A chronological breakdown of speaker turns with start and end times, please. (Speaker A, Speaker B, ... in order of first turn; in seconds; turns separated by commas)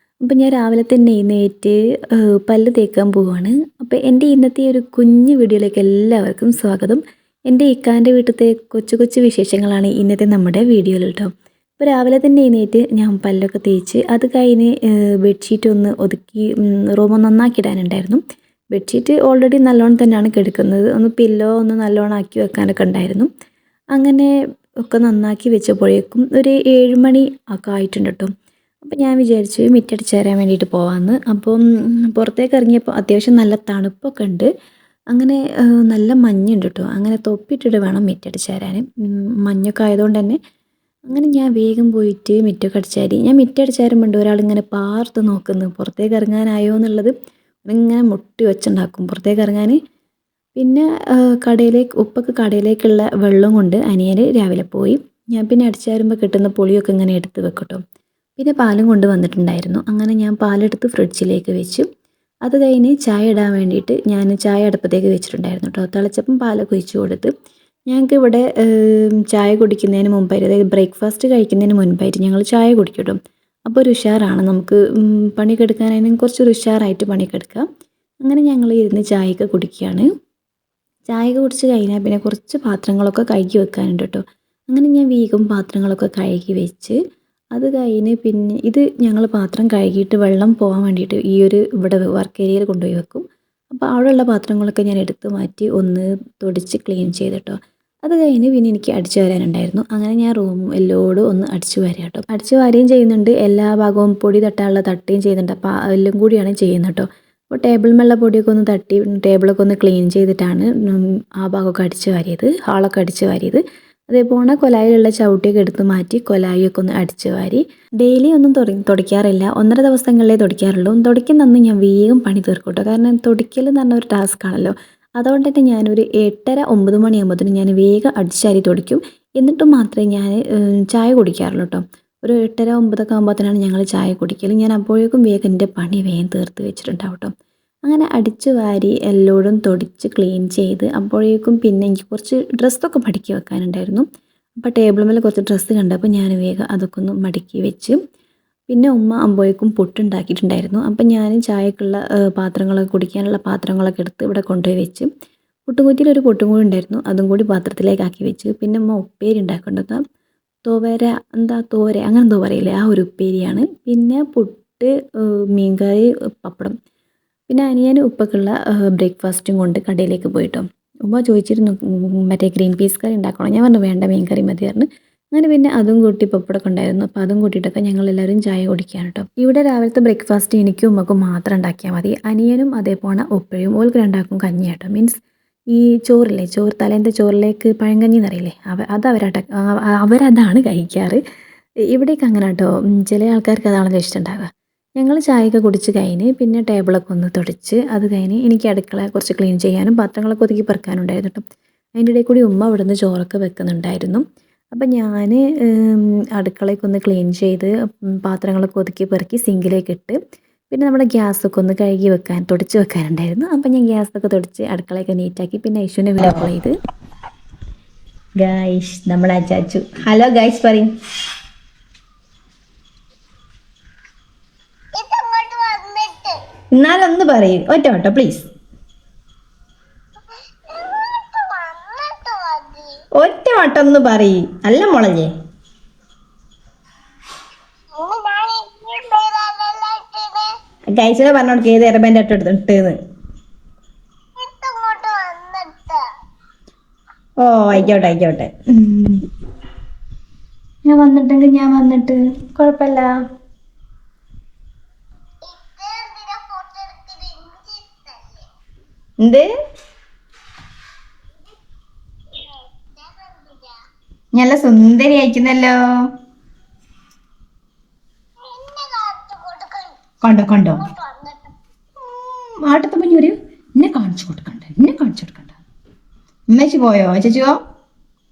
Speaker A: 0.2-18.2, Speaker A: 18.7-23.3, Speaker A: 24.0-24.3, Speaker A: 24.9-28.3, Speaker A: 28.9-34.5, Speaker A: 35.1-40.4, Speaker A: 41.1-47.1, Speaker A: 47.7-49.8, Speaker A: 50.6-57.8, Speaker A: 58.4-61.9, Speaker A: 62.5-67.3, Speaker A: 67.9-77.7, Speaker A: 78.2-80.1, Speaker A: 81.1-87.0, Speaker A: 87.6-137.3, Speaker A: 137.9-144.1, Speaker A: 144.6-148.0, Speaker A: 148.7-155.1, Speaker A: 155.7-160.0, Speaker A: 160.7-166.8, Speaker A: 167.5-185.2, Speaker A: 185.7-191.2, Speaker A: 191.9-194.5, Speaker A: 195.0-201.4, Speaker A: 202.0-210.2, Speaker A: 210.7-216.7, Speaker B: 218.4-220.9, Speaker C: 224.9-226.4, Speaker B: 226.7-228.5, Speaker C: 230.7-233.0, Speaker B: 233.2-235.3, Speaker C: 237.9-240.5, Speaker B: 240.9-243.0, Speaker C: 244.4-246.0, Speaker B: 247.4-249.2, Speaker B: 250.9-253.1, Speaker C: 255.4-258.5, Speaker B: 259.2-259.5, Speaker C: 262.4-263.8, Speaker B: 264.3-265.8, Speaker C: 268.4-270.1, Speaker B: 270.2-270.9, Speaker C: 270.7-271.5, Speaker B: 272.0-275.6, Speaker B: 276.5-277.6